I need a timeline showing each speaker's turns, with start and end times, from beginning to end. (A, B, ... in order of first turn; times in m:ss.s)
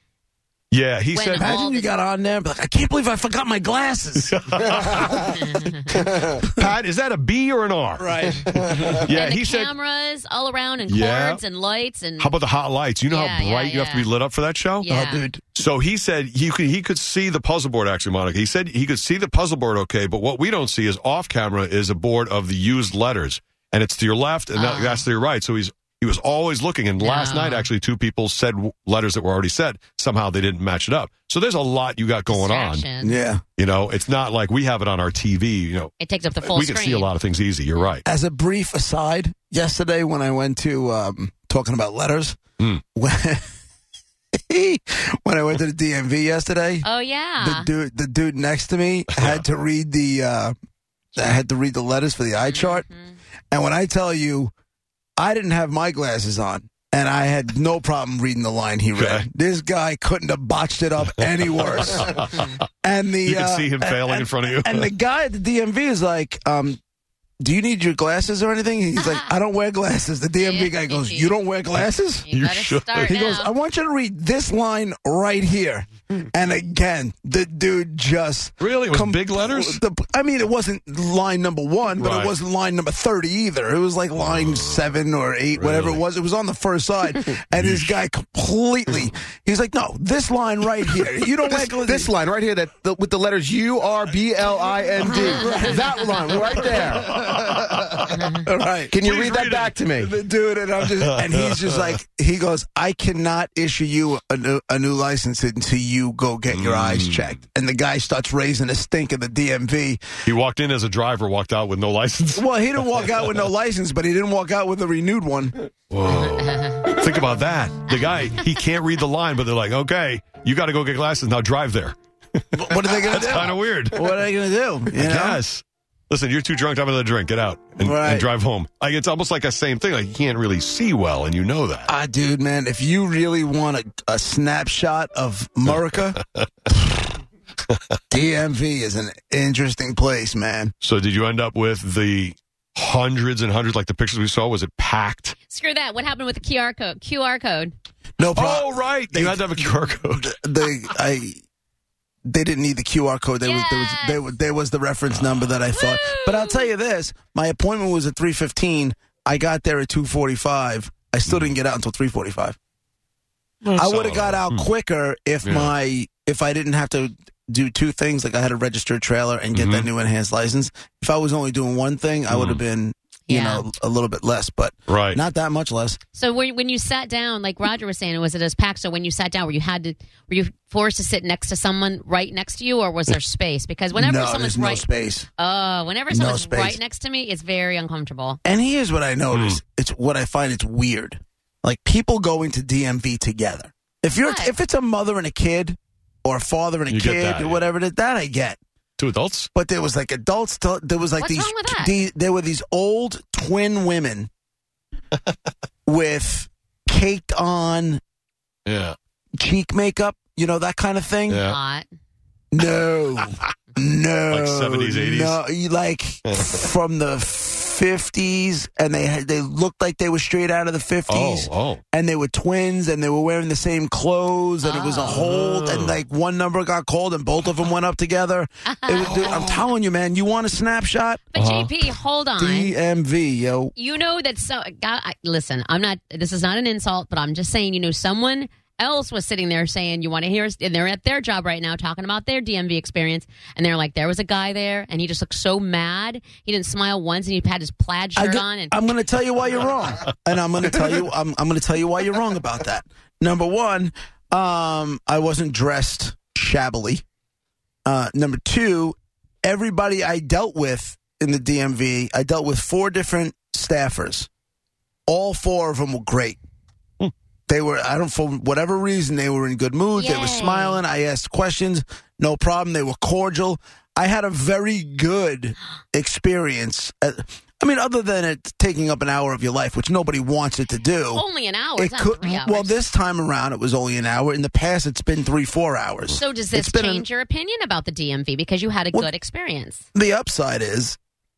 0:00.7-0:01.6 A
0:01.1-0:01.9 B
0:01.4-0:04.3 C
0:04.2-0:09.7 A
0:04.9-0:05.2 C
0:05.3-0:05.8 B
0:08.0-0:09.0 C
0:09.1-0:12.3 B
0:10.9-0:11.4 A
0:12.2-0:14.9 A
0:13.1-0:14.1 B
0:14.8-0:15.2 B
0:14.9-0:15.4 C
0:15.5-0:32.9 A
0:24.5-0:25.0 B
0:27.0-0:27.7 B
0:32.3-0:33.2 B
0:33.0-0:33.4 C
0:33.6-0:38.0 A
0:36.0-0:37.1 B
0:38.0-0:42.4 C
0:42.9-0:43.5 C
0:44.5-0:46.9 C
0:46.8-0:47.7 B
0:47.4-0:50.5 C
0:49.1-0:49.4 A
0:51.1-0:52.8 C
0:52.4-0:53.1 B
0:53.5-0:54.5 C
0:55.2-1:02.3 C
0:58.9-0:59.2 A
1:01.9-1:02.5 A
1:02.8-1:06.8 C
1:03.2-1:04.9 A
1:07.4-1:12.2 C
1:09.0-1:09.2 B
1:10.4-1:11.3 B
1:12.2-1:13.5 B
1:12.3-1:13.2 A
1:13.0-1:32.1 C
1:18.6-1:19.8 A
1:22.0-1:22.3 A
1:24.2-1:24.8 A
1:25.6-1:26.0 A
1:27.5-1:28.0 A
1:31.4-1:37.8 D
1:35.0-1:36.6 C
1:35.4-1:36.1 B
1:36.5-1:38.3 A
1:38.1-1:38.5 B
1:38.4-1:39.0 C
1:38.9-1:40.1 D
1:39.0-1:39.8 A
1:40.0-1:50.0 C
1:41.0-1:42.0 A
1:46.5-1:47.4 A
1:50.2-1:53.0 A
1:52.4-1:55.6 C
1:55.9-2:02.0 A
1:56.2-1:56.8 B
2:02.5-2:05.4 C
2:02.6-2:04.1 A
2:04.9-2:11.9 A
2:07.8-2:08.3 C
2:11.9-2:16.2 C
2:15.7-2:16.5 A
2:18.1-2:20.7 C
2:20.8-2:25.4 A
2:25.5-2:27.7 B
2:28.2-2:31.4 C
2:28.2-2:30.4 A
2:32.2-2:42.6 C
2:33.4-2:34.2 B
2:35.1-2:35.6 A
2:35.7-2:36.7 B
2:41.2-2:41.5 A
2:43.6-2:44.7 A
2:43.7-2:56.0 C
2:45.4-2:45.7 A
2:49.5-2:49.9 A
2:52.3-2:52.6 A
2:53.3-2:53.6 B
2:54.9-2:55.2 A
2:56.1-3:04.8 B
3:03.9-3:05.3 C
3:05.4-3:08.4 B
3:06.1-3:06.8 C
3:08.4-3:18.6 C
3:09.3-3:09.6 A
3:14.2-3:14.5 B
3:16.9-3:17.6 A
3:19.0-3:19.5 A
3:19.5-3:24.3 C
3:21.2-3:21.9 B
3:25.8-3:28.0 C
3:28.6-3:29.0 A
3:29.4-3:31.4 C
3:31.3-3:31.6 A
3:31.4-3:31.8 B
3:32.5-3:51.2 C
3:34.3-3:35.4 A
3:36.2-3:36.6 A
3:41.1-3:41.8 A
3:44.6-3:45.2 B
3:45.1-3:46.0 A
3:48.7-3:49.2 B
3:49.0-3:49.6 A
3:51.3-3:52.7 B
3:51.4-3:51.8 A
3:52.4-3:53.7 C
3:53.8-4:08.7 B
4:08.2-4:17.0 C
4:17.8-4:24.3 C
4:25.1-4:26.4 C
4:27.5-4:41.2 C
4:30.0-4:30.8 B
4:41.1-4:42.7 B
4:41.8-4:47.0 C
4:46.1-4:49.8 B
4:49.9-4:51.0 C